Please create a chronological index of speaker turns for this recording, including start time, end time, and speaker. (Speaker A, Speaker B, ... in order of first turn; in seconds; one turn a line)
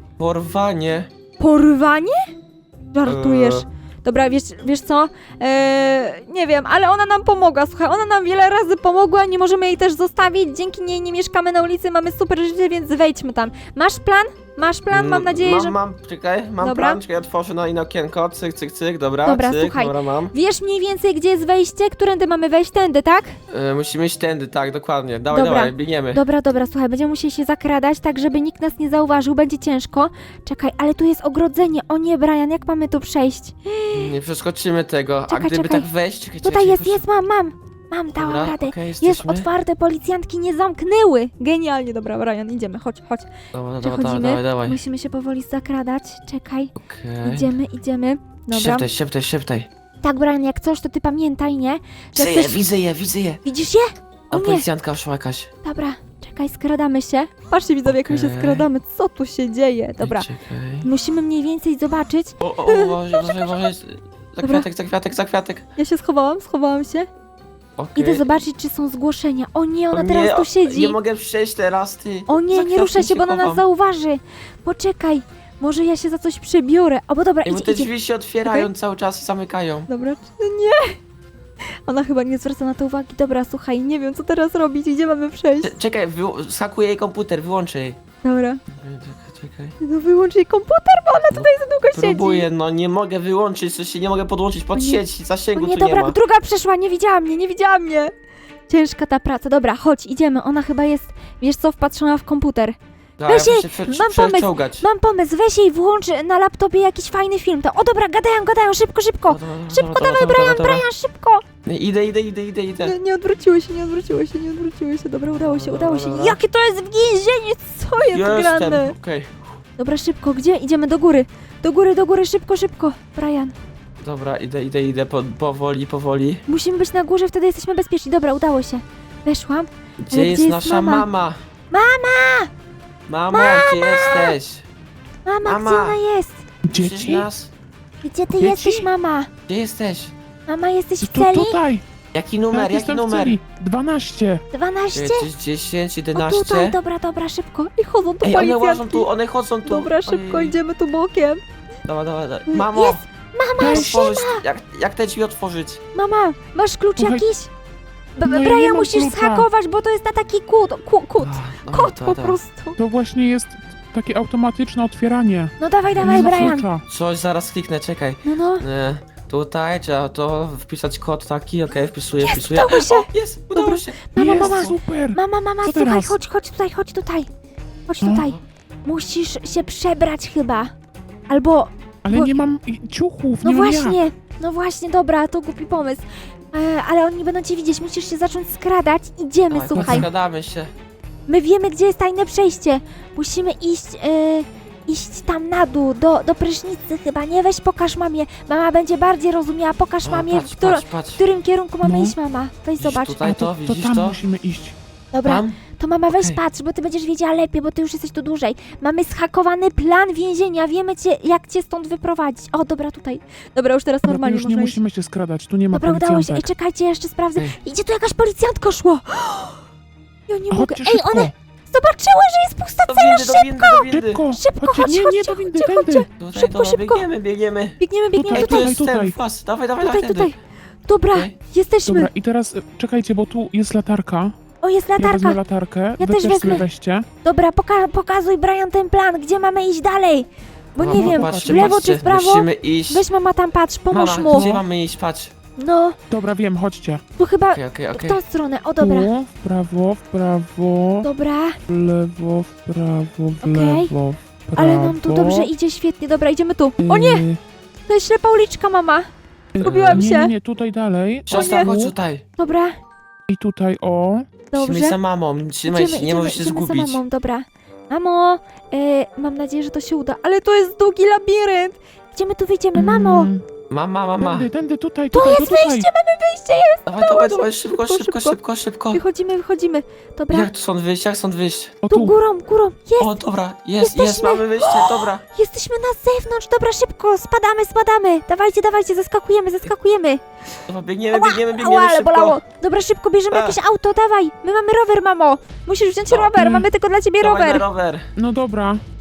Speaker A: 0.2-1.1
Speaker B: 1.4-2.1
Speaker B: 2.9-15.8
Speaker A: 3.0-3.7
Speaker A: 14.9-20.3
Speaker B: 16.6-17.0
Speaker B: 19.2-23.4
Speaker A: 23.5-26.2
Speaker B: 25.3-34.1
Speaker A: 33.9-37.0
Speaker B: 35.3-35.9
Speaker B: 36.4-43.3
Speaker A: 38.1-39.5
Speaker A: 43.5-44.8
Speaker B: 43.8-46.7
Speaker A: 46.8-47.5
Speaker B: 47.2-48.9
Speaker A: 48.5-49.7
Speaker B: 50.0-52.6
Speaker A: 52.1-53.4
Speaker B: 53.4-54.6
Speaker A: 54.3-55.5
Speaker B: 55.6-60.3
Speaker A: 57.9-58.7
Speaker A: 60.0-60.9
Speaker B: 60.8-63.7
Speaker A: 62.4-65.6
Speaker B: 64.4-64.7
Speaker B: 65.8-67.1
Speaker A: 67.8-68.2
Speaker B: 68.0-71.0
Speaker A: 69.9-73.6
Speaker B: 72.3-77.9
Speaker A: 77.4-79.9
Speaker B: 78.4-78.7
Speaker B: 79.9-81.0
Speaker B: 81.8-85.7
Speaker A: 85.6-88.0
Speaker B: 88.2-88.6
Speaker A: 88.7-89.8
Speaker B: 89.8-92.5
Speaker A: 91.3-96.2
Speaker B: 94.7-95.0
Speaker B: 95.5-98.1
Speaker B: 98.7-102.8
Speaker A: 103.2-104.8
Speaker B: 103.3-111.4
Speaker A: 109.3-110.9
Speaker A: 111.6-112.9
Speaker B: 112.8-118.9
Speaker A: 115.3-116.4
Speaker A: 118.0-119.4
Speaker B: 119.8-123.5
Speaker A: 124.0-126.4
Speaker B: 126.5-131.1
Speaker A: 130.0-131.4
Speaker B: 131.7-132.5
Speaker A: 133.1-134.6
Speaker B: 133.3-134.3
Speaker B: 135.2-136.4
Speaker A: 135.4-136.0
Speaker C: 136.6-137.3
Speaker A: 136.7-137.5
Speaker B: 138.0-139.3
Speaker C: 138.3-138.9
Speaker A: 139.5-140.1
Speaker B: 140.5-141.6
Speaker C: 141.0-141.8
Speaker A: 142.1-143.4
Speaker C: 142.5-144.4
Speaker B: 144.5-145.3
Speaker A: 144.9-146.8
Speaker B: 146.1-149.1
Speaker A: 148.2-150.6
Speaker B: 149.6-151.4
Speaker A: 151.8-153.0
Speaker B: 152.5-154.4
Speaker A: 153.6-155.8
Speaker C: 153.6-154.1
Speaker B: 155.9-157.5
Speaker C: 157.0-157.2
Speaker B: 158.2-162.8
Speaker C: 158.2-159.5
Speaker A: 161.2-162.4
Speaker C: 162.8-166.8
Speaker B: 165.6-166.7
Speaker A: 165.9-174.7
Speaker B: 168.2-168.6
Speaker B: 172.2-177.3
Speaker C: 174.2-176.2
Speaker B: 177.9-180.7
Speaker C: 178.0-178.3
Speaker B: 181.3-182.4
Speaker C: 182.0-184.0
Speaker B: 183.4-190.1
Speaker A: 189.5-190.7
Speaker C: 189.7-190.1
Speaker B: 191.3-203.2
Speaker A: 200.0-201.2
Speaker C: 201.8-202.1
Speaker A: 202.8-204.2
Speaker C: 203.2-204.8
Speaker B: 205.1-214.8
Speaker A: 205.2-205.6
Speaker C: 214.0-216.5
Speaker B: 215.7-219.6
Speaker B: 220.3-227.0
Speaker C: 220.5-221.3
Speaker A: 222.8-224.2
Speaker C: 223.9-226.1
Speaker A: 226.2-227.8
Speaker B: 227.8-228.7
Speaker C: 228.1-229.2
Speaker A: 228.3-230.3
Speaker B: 229.8-230.3
Speaker B: 230.9-232.1
Speaker C: 231.8-234.3
Speaker B: 234.6-235.4
Speaker C: 235.0-237.1
Speaker B: 236.0-236.7
Speaker B: 237.2-244.6
Speaker A: 240.8-243.0
Speaker C: 240.9-241.8
Speaker A: 243.9-245.3
Speaker C: 244.3-244.6
Speaker B: 245.6-246.0
Speaker C: 246.1-247.0
Speaker B: 247.2-249.1
Speaker A: 247.5-248.2
Speaker C: 248.8-251.1
Speaker B: 251.0-251.6
Speaker C: 251.7-255.5
Speaker B: 253.4-253.9
Speaker B: 254.6-257.2
Speaker C: 256.8-257.4
Speaker B: 257.9-259.1
Speaker C: 259.5-261.9
Speaker B: 259.6-260.3
Speaker A: 259.6-260.1
Speaker A: 261.3-262.2
Speaker B: 261.3-261.7
Speaker B: 262.4-262.8
Speaker C: 263.3-264.3
Speaker B: 264.5-265.0
Speaker A: 264.6-267.0
Speaker B: 265.7-273.3
Speaker C: 272.8-273.4
Speaker A: 273.7-274.5
Speaker C: 274.2-275.9
Speaker B: 275.1-278.4
Speaker A: 276.9-279.0
Speaker B: 278.9-280.5
Speaker A: 280.3-281.8
Speaker C: 281.8-282.1
Speaker B: 281.9-283.1
Speaker A: 283.0-285.2
Speaker B: 283.8-290.2
Speaker A: 290.7-292.4
Speaker B: 291.1-297.6
Speaker A: 293.3-293.6
Speaker A: 296.1-296.3
Speaker C: 296.4-296.7
Speaker A: 297.2-298.1
Speaker C: 298.1-298.8